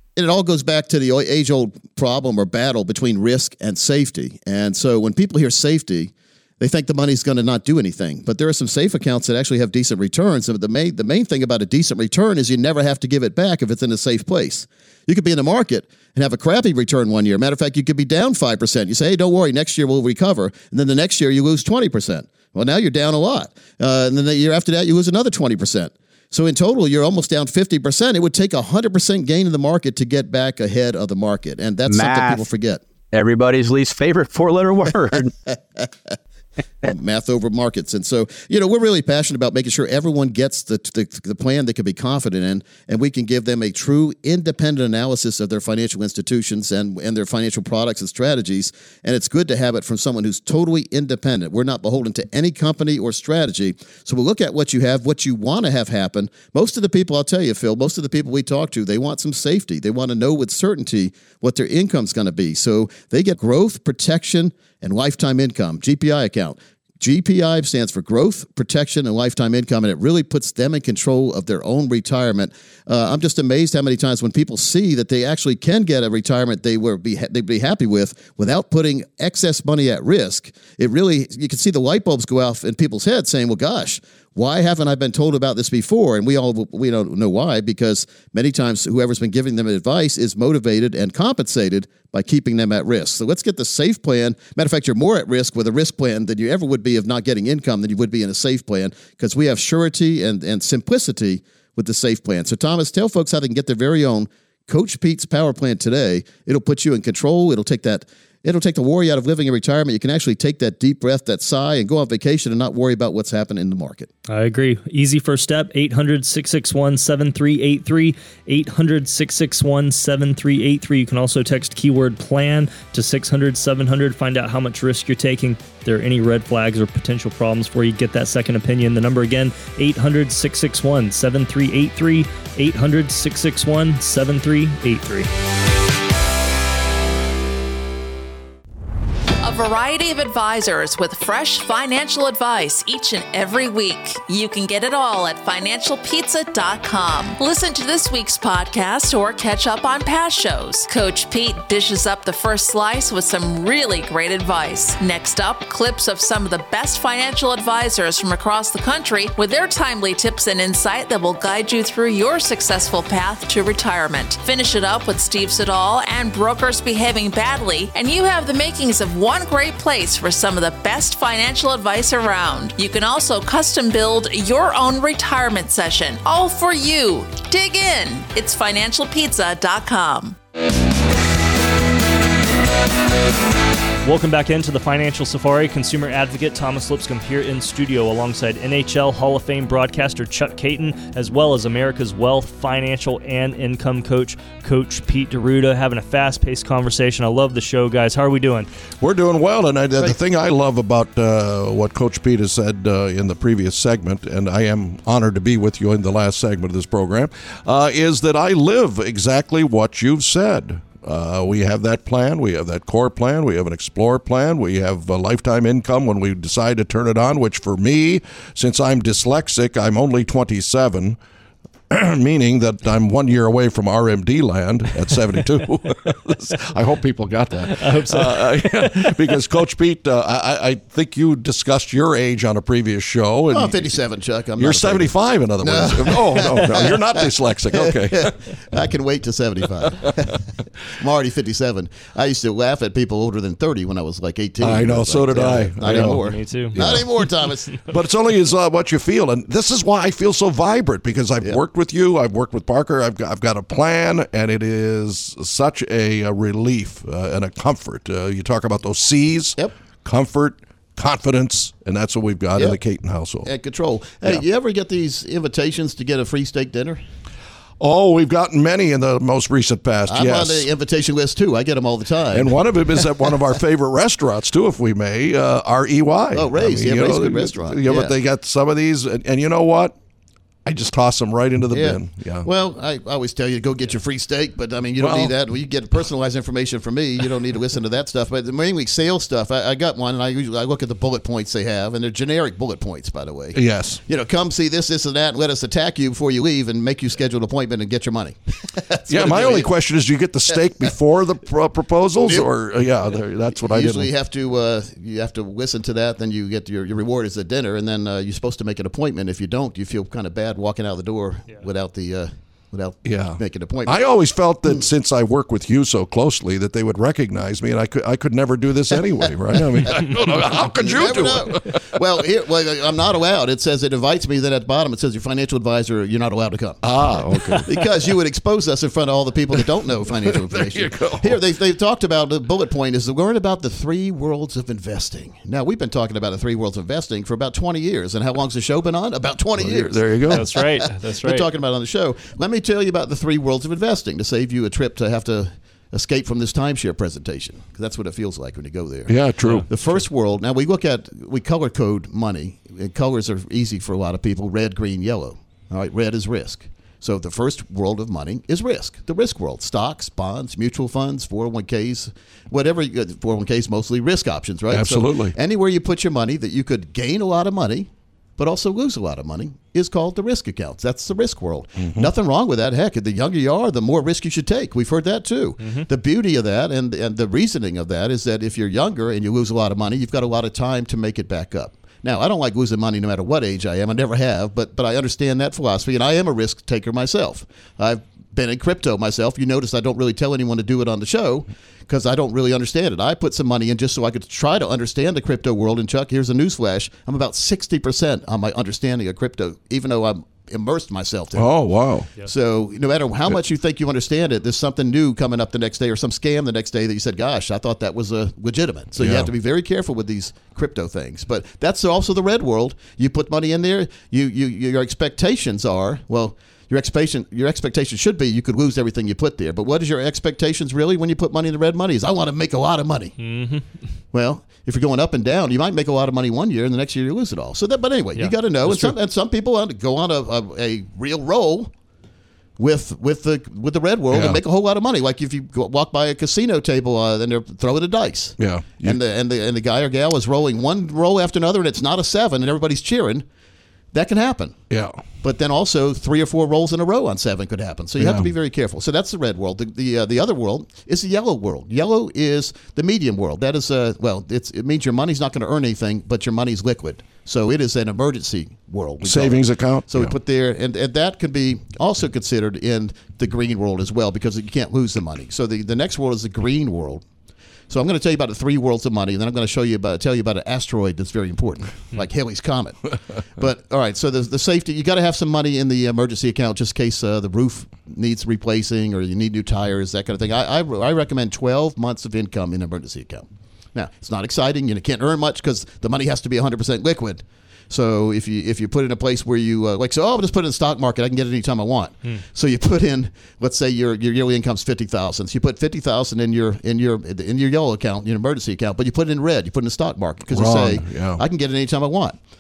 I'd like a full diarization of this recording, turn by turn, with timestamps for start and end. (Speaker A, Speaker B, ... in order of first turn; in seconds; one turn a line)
Speaker A: 0.2-32.8
Speaker B: 31.9-32.5
Speaker B: 33.1-35.3
Speaker A: 36.8-114.1
Speaker C: 114.3-135.3
Speaker D: 139.4-180.4
Speaker C: 184.1-198.7
Speaker E: 199.0-221.2
Speaker E: 221.9-233.9
Speaker C: 227.7-229.1
Speaker A: 233.5-240.4
Speaker E: 234.6-238.4
Speaker A: 240.9-247.7
Speaker E: 244.6-247.1
Speaker C: 245.8-246.8
Speaker E: 247.9-263.5
Speaker A: 263.4-267.0
Speaker E: 267.8-270.7
Speaker A: 270.1-272.6
Speaker E: 272.3-279.9
Speaker A: 276.3-278.1
Speaker E: 280.6-282.5
Speaker A: 281.7-299.7
Speaker E: 285.0-285.3
Speaker E: 293.5-294.0
Speaker E: 299.1-304.1
Speaker A: 302.2-302.5
Speaker A: 303.5-314.0
Speaker E: 313.1-321.8
Speaker A: 319.2-326.8
Speaker E: 326.8-327.7
Speaker A: 327.6-349.1
Speaker E: 330.3-331.4
Speaker E: 339.6-340.4
Speaker C: 340.3-341.5
Speaker E: 349.1-349.7
Speaker A: 349.7-401.5
Speaker E: 364.7-365.3
Speaker E: 371.8-372.1
Speaker E: 401.4-402.1
Speaker A: 402.2-423.2
Speaker E: 409.0-409.3
Speaker C: 423.2-423.7
Speaker A: 424.1-431.7
Speaker A: 432.6-443.3
Speaker E: 434.1-434.4
Speaker E: 438.4-439.0
Speaker A: 443.9-444.6
Speaker E: 444.7-445.0
Speaker A: 445.2-467.1
Speaker E: 448.0-448.3
Speaker E: 459.0-460.1
Speaker A: 467.7-472.8
Speaker A: 473.3-502.2
Speaker E: 500.3-501.2